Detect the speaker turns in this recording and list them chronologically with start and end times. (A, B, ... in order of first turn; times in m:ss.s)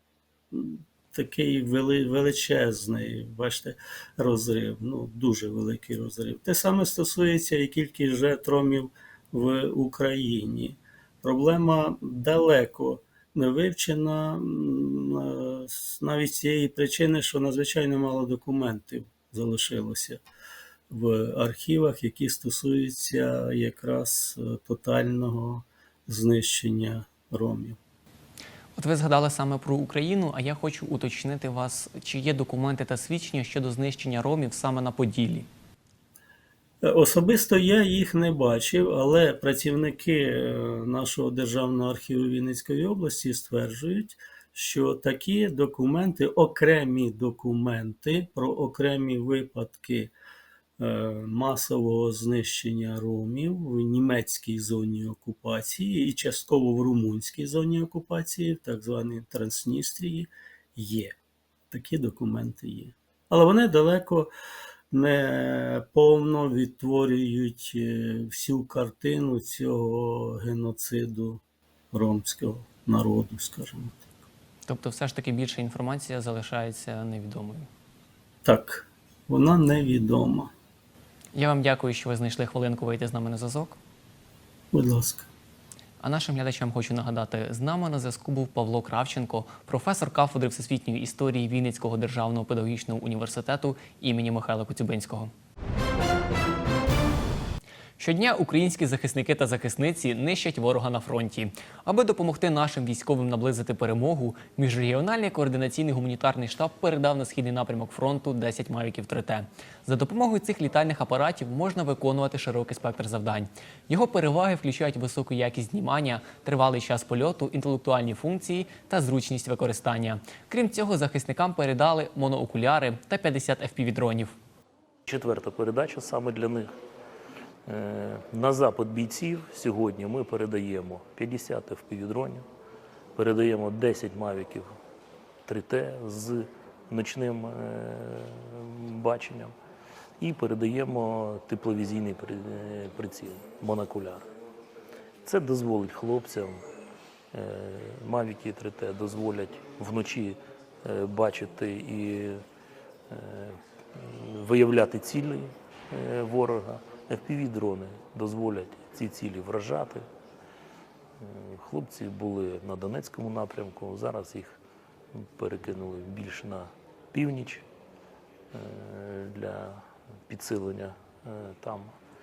0:00.5-0:20.2 A
0:20.9-0:27.8 A
0:28.8-0:35.5 B
0:36.8-0:50.1 A
0:50.8-1:01.2 A
1:01.7-1:04.3 A
1:04.9-1:14.0 A
1:14.6-1:17.7 B
1:18.4-1:20.5 A
1:21.3-1:23.8 B
1:24.7-1:25.3 A
1:26.0-1:35.3 B
1:38.0-2:04.3 B
2:05.0-2:06.7 C
2:07.6-2:12.4 C
2:13.1-2:14.7 C
2:15.5-2:19.5 C
2:20.2-2:24.3 C
2:25.2-2:26.7 C
2:27.3-2:32.4 C
2:33.1-2:40.0 C
2:41.2-2:44.6 C
2:45.1-2:47.6 C
2:48.5-2:52.0 C